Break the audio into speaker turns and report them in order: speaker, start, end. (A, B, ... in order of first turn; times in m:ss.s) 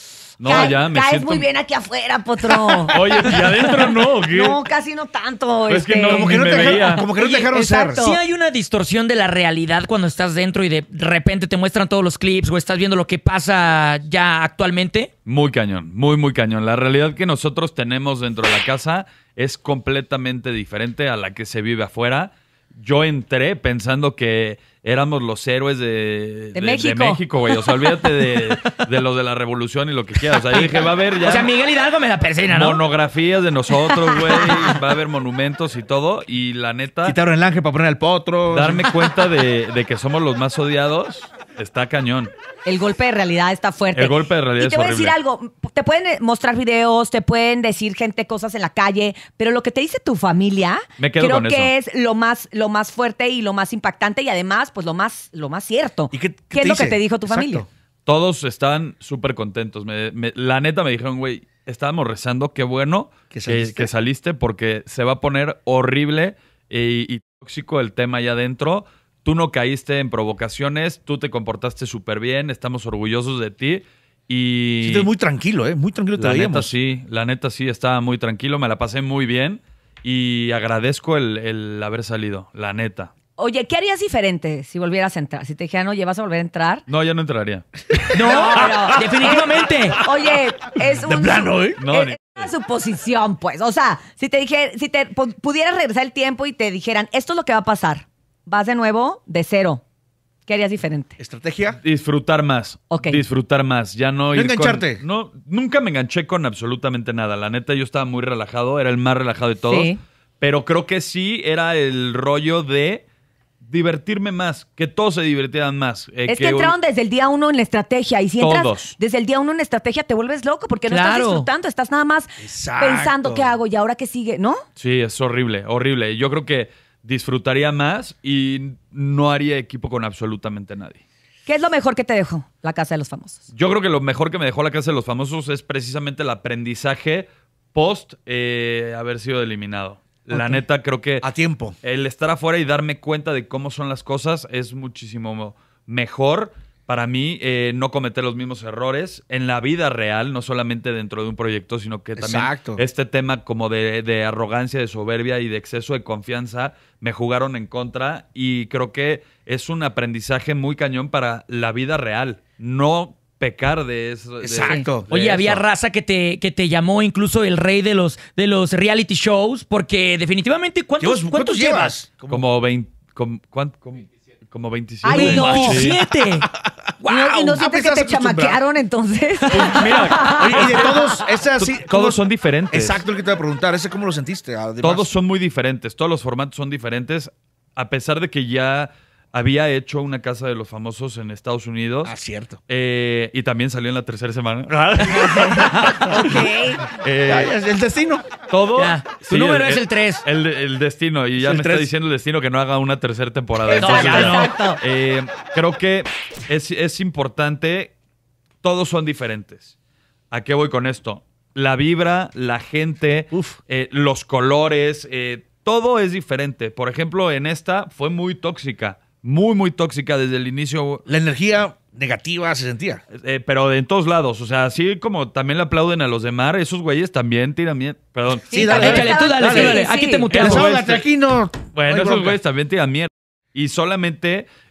0:00.4-0:01.4 A
0:00.4-0:02.9 B
0:02.5-0:03.1 C
0:02.9-0:04.6 A
0:03.7-0:08.2 B
0:05.7-0:07.1 A
0:06.0-0:08.0 C
0:07.1-0:15.1 D
0:15.2-0:31.5 A
0:26.5-0:27.2 B
0:30.3-0:32.8 D
0:32.5-0:37.2 A
0:33.7-0:34.7 D
0:37.0-0:38.8 C
0:38.5-0:42.3 A
0:42.6-0:57.6 B
0:43.9-0:45.2 A
0:51.0-0:51.7 A
0:56.1-0:57.6 C
0:58.0-1:15.1 A
1:03.3-1:03.9 C
1:14.8-1:16.7 C
1:16.2-1:23.1 A
1:23.4-1:26.8 B
1:26.9-1:27.6 A
1:27.9-1:28.8 C
1:28.1-1:30.0 D
1:28.2-1:39.8 B
1:31.0-1:31.8 C
1:31.8-1:32.5 A
1:40.4-1:41.2 B
1:41.2-1:41.8 C
1:41.8-1:53.0 A
1:42.9-1:43.2 B
1:44.3-1:45.0 C
1:49.6-1:50.0 B
1:53.6-1:56.8 A
1:56.3-2:04.6 B
1:58.4-1:58.9 A
2:00.9-2:01.5 D
2:02.4-2:03.5 C
2:04.8-2:11.0 A
2:11.4-2:13.4 B
2:13.5-2:21.3 A
2:21.2-2:21.7 C
2:21.8-2:45.6 A
2:32.2-2:32.8 C
2:44.4-2:45.1 C
2:45.1-2:52.0 D
2:51.0-2:52.4 C
2:52.3-2:56.0 A
2:55.0-2:55.8 B
2:55.1-2:56.5 D
2:55.2-2:55.8 C
2:57.0-2:58.6 C
2:57.0-3:01.2 B
2:59.5-3:00.7 A
3:00.4-3:02.2 C
3:01.6-3:03.0 A
3:02.7-3:05.1 C
3:04.8-3:12.1 A
3:12.0-3:12.6 C
3:12.7-3:17.5 A
3:15.0-3:16.9 B
3:15.7-3:16.0 D
3:17.2-3:18.2 C
3:18.5-3:27.9 A
3:18.7-3:20.2 D
3:21.4-3:21.9 C
3:23.7-3:24.8 B
3:23.7-3:24.5 D
3:28.6-3:29.7 A
3:30.3-3:41.0 A
3:33.3-3:33.6 C
3:41.1-3:43.0 C
3:43.1-3:48.8 A
3:48.5-3:50.3 B
3:48.5-3:49.8 C
3:48.6-3:50.7 D
3:50.3-3:51.0 A
3:50.3-3:52.4 C
3:51.7-3:54.5 A